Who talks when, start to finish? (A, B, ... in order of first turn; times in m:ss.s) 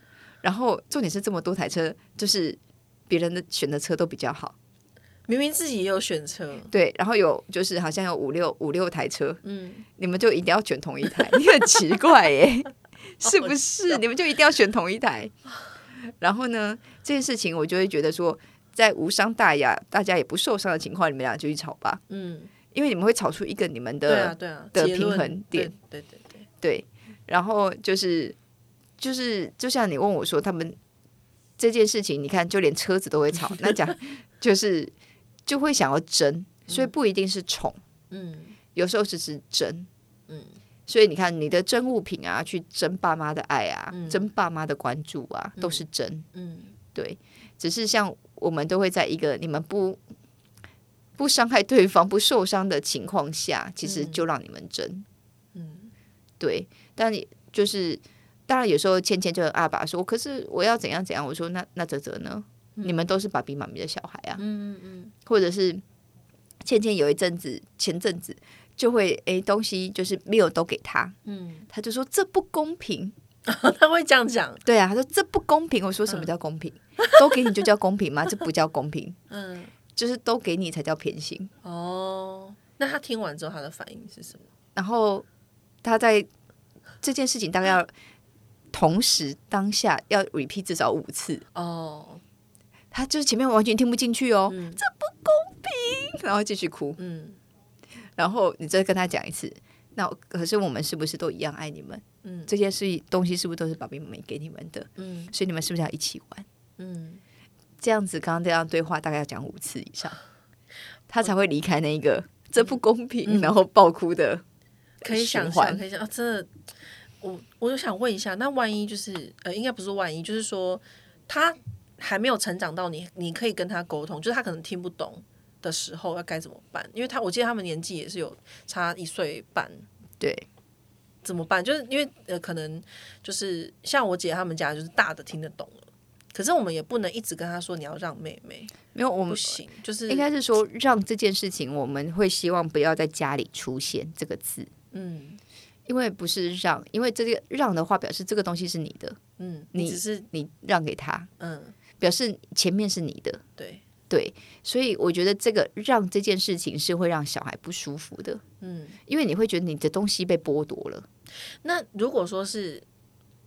0:00.4-0:04.5 A
0:05.3-0:06.7 B
0:06.7-0:09.4 A
0:09.4-0:09.8 B
0:10.0-0:15.3 A
0:13.2-0:14.0 B
0:16.1-0:22.0 A
0:22.1-0:22.5 B
0:22.7-0:25.7 A
0:24.0-0:26.4 B
0:26.6-0:28.4 A
0:29.0-0:30.8 A
0:31.6-0:34.9 A
0:35.4-0:37.8 A
0:36.7-0:36.9 B
0:38.1-0:38.6 B
0:38.7-0:39.9 A
0:40.3-0:40.6 B
0:40.9-0:46.2 A
0:43.9-0:44.2 B
0:45.6-0:46.7 B
0:46.9-0:50.0 A
0:51.2-0:55.0 A
0:53.8-0:54.2 B
0:55.5-0:55.9 B
0:56.4-1:04.4 A
1:02.8-1:03.0 B
1:04.4-1:05.1 B
1:05.2-1:05.8 A
1:06.6-1:11.2 A
1:11.2-1:11.7 B
1:11.7-1:13.1 A
1:13.4-1:14.6 B
1:14.6-1:19.2 A
1:19.3-1:19.7 B
1:19.9-1:21.5 A
1:21.6-1:24.5 B
1:24.8-1:25.2 A
1:25.8-1:26.3 A
1:27.0-1:27.9 A
1:28.7-1:31.4 A
1:31.5-1:32.2 B
1:32.9-1:37.0 A
1:34.5-1:34.8 B
1:37.0-1:37.4 B
1:38.2-1:46.4 A
1:42.2-1:42.5 B
1:45.0-1:45.3 B
1:46.8-1:47.2 B
1:47.8-1:50.2 A
1:51.1-1:54.4 A
1:52.6-1:53.6 B
1:55.0-1:55.8 A
1:55.0-1:56.5 B
1:57.2-2:09.8 B
2:10.2-2:10.4 A
2:11.2-2:18.7 B
2:18.9-2:24.7 A
2:19.3-2:20.3 B
2:24.9-2:25.4 B
2:25.9-2:29.2 A
2:29.4-2:30.3 B
2:29.7-2:31.3 A
2:31.4-2:31.8 B
2:32.0-2:33.4 A
2:33.6-2:33.8 B
2:34.1-2:38.4 A
2:38.6-2:39.0 B
2:39.1-2:41.0 A
2:41.6-2:42.8 B